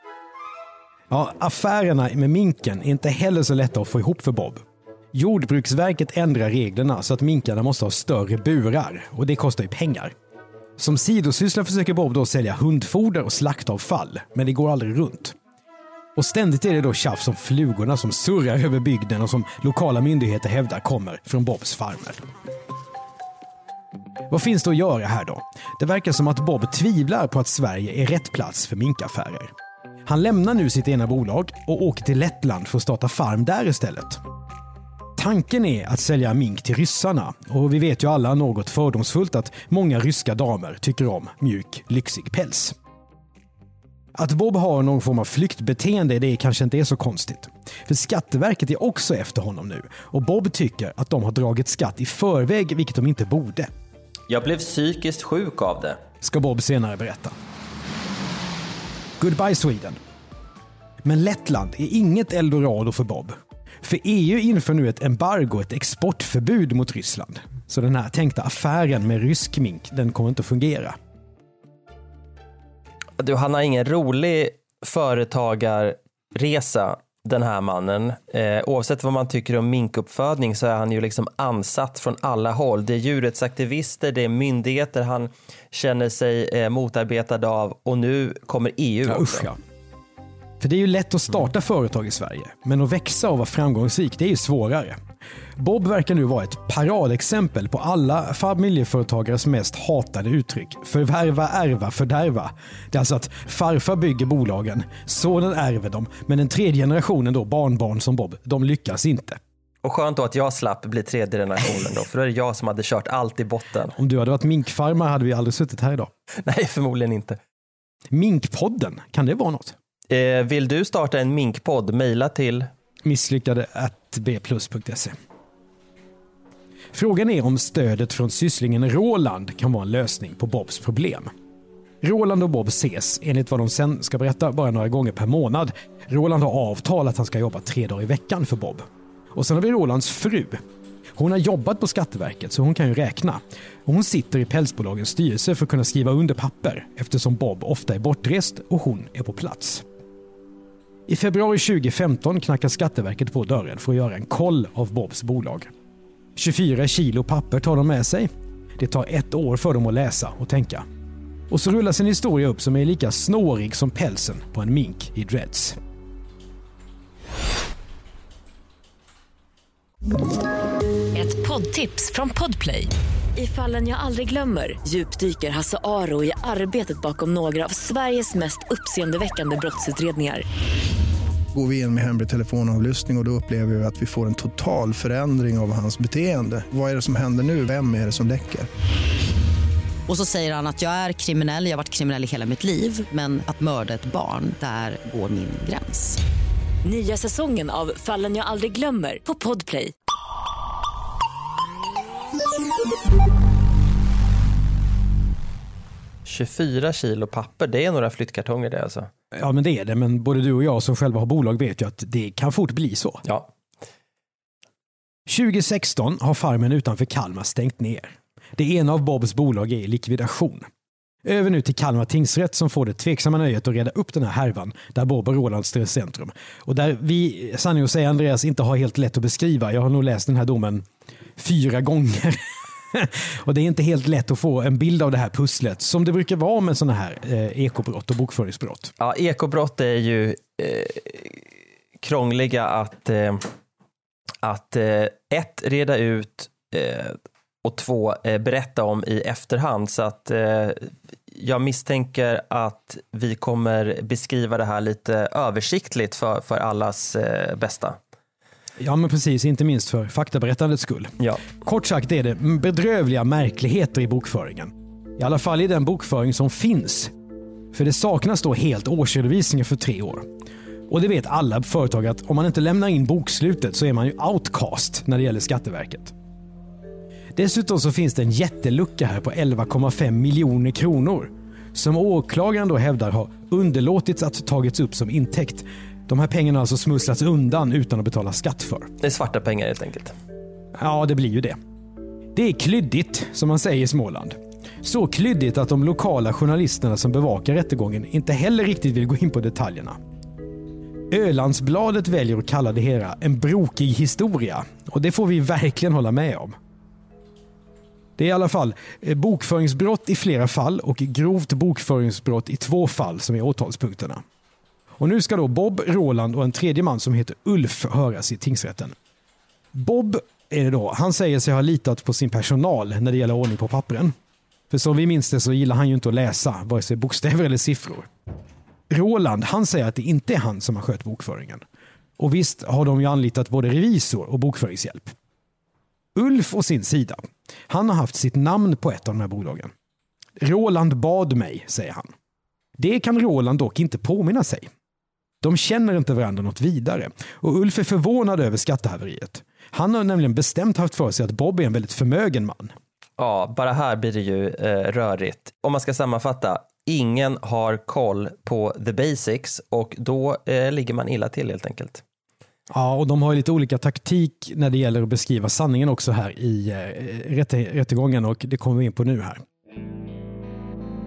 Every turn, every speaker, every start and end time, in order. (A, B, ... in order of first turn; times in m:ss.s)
0:01.1-0:10.1 A
0:10.8-0:15.4 A
0:16.2-0:22.2 A
0:24.3-0:29.5 A
0:30.0-0:34.2 A
0:35.2-0:42.8 A
0:44.1-0:53.7 A
0:54.3-0:56.0 B
0:56.2-0:57.3 A
0:59.2-1:00.0 A
1:01.0-1:11.0 A
1:13.2-1:29.5 B
1:29.1-1:29.6 A
1:30.6-1:35.0 A
1:35.6-1:49.4 A
1:49.8-1:53.9 B
1:54.0-1:56.1 A
1:56.4-1:57.4 B
1:58.1-1:59.8 A
2:00.1-2:02.7 B
2:03.0-2:05.1 A
2:06.9-2:11.3 A
2:12.0-2:20.6 A
2:21.2-2:29.8 A
2:31.1-2:35.7 A
2:36.4-2:40.8 A
2:41.5-2:45.8 A
2:51.1-3:00.4 C
3:01.5-3:08.7 D
3:10.1-3:16.2 E
3:16.8-3:19.9 C
3:26.2-3:29.1 B
3:29.3-3:33.2 A
3:35.3-3:40.6 A
3:41.2-3:58.9 A
3:59.0-4:01.4 B
4:02.0-4:03.5 B
4:04.4-4:18.0 B
4:18.8-4:27.1 A
4:27.7-4:30.3 A
4:30.9-4:36.1 A
4:37.4-4:48.9 A
4:49.0-4:50.1 B
4:50.8-4:51.6 A
4:52.3-5:00.0 A
5:01.1-5:06.6 A
5:08.2-5:14.2 A
5:15.0-5:18.9 A
5:19.7-5:24.1 A
5:24.7-5:28.1 A
5:28.9-5:31.6 A
5:32.2-5:35.1 A
5:36.1-5:39.7 A
5:40.4-5:42.1 A
5:42.8-5:44.7 A
5:45.4-5:52.7 A
5:53.2-6:02.0 B
6:02.7-6:09.4 A